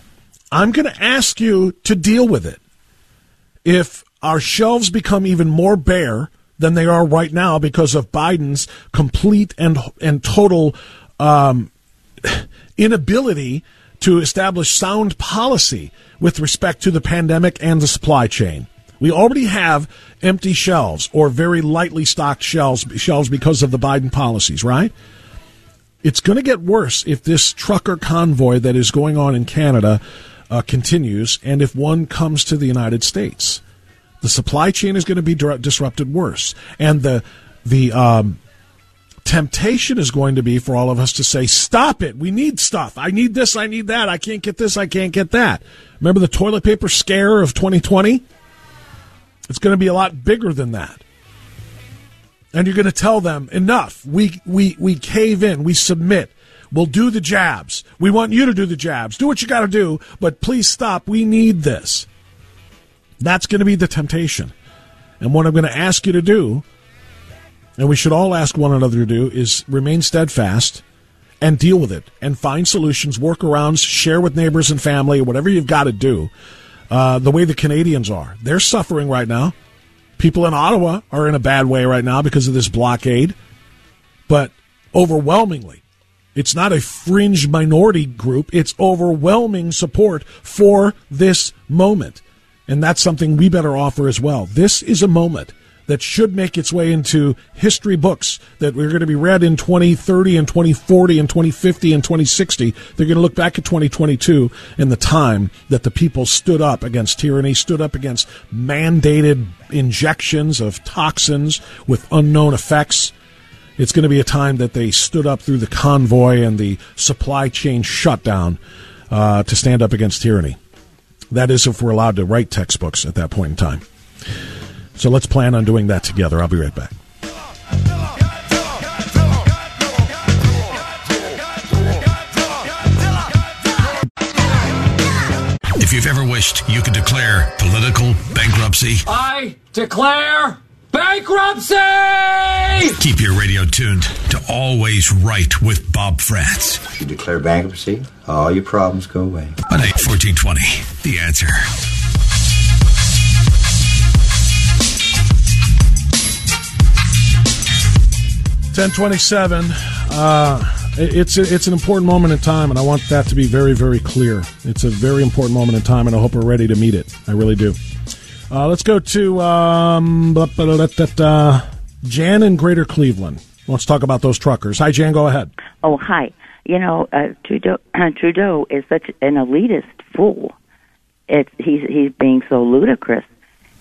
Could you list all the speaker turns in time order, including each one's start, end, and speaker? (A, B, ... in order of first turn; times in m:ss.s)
0:00.5-0:02.6 A
0:03.6-0:11.7 A
0:12.2-0:24.9 A
0:26.0-0:33.6 A
0:34.2-0:38.4 A
0:39.2-0:48.2 A
0:49.5-0:51.0 A
0:52.5-1:02.1 A
1:03.2-1:04.5 A
1:05.2-1:06.6 A
1:07.8-1:10.8 A
1:11.4-1:16.3 A
1:16.9-1:19.5 A
1:20.2-1:23.4 A
1:24.3-1:25.8 A
1:26.3-1:53.1 A
1:53.8-1:58.6 A
1:59.1-2:00.6 A
2:01.3-2:03.8 A
2:05.0-2:06.9 A
2:15.8-2:19.1 B
2:19.2-2:22.6 C
2:22.9-2:26.8 B
2:27.0-2:29.6 D
2:29.7-2:31.7 B
2:38.7-2:47.8 A
2:48.5-2:55.5 A
2:55.8-3:00.5 E
3:01.3-3:03.3 E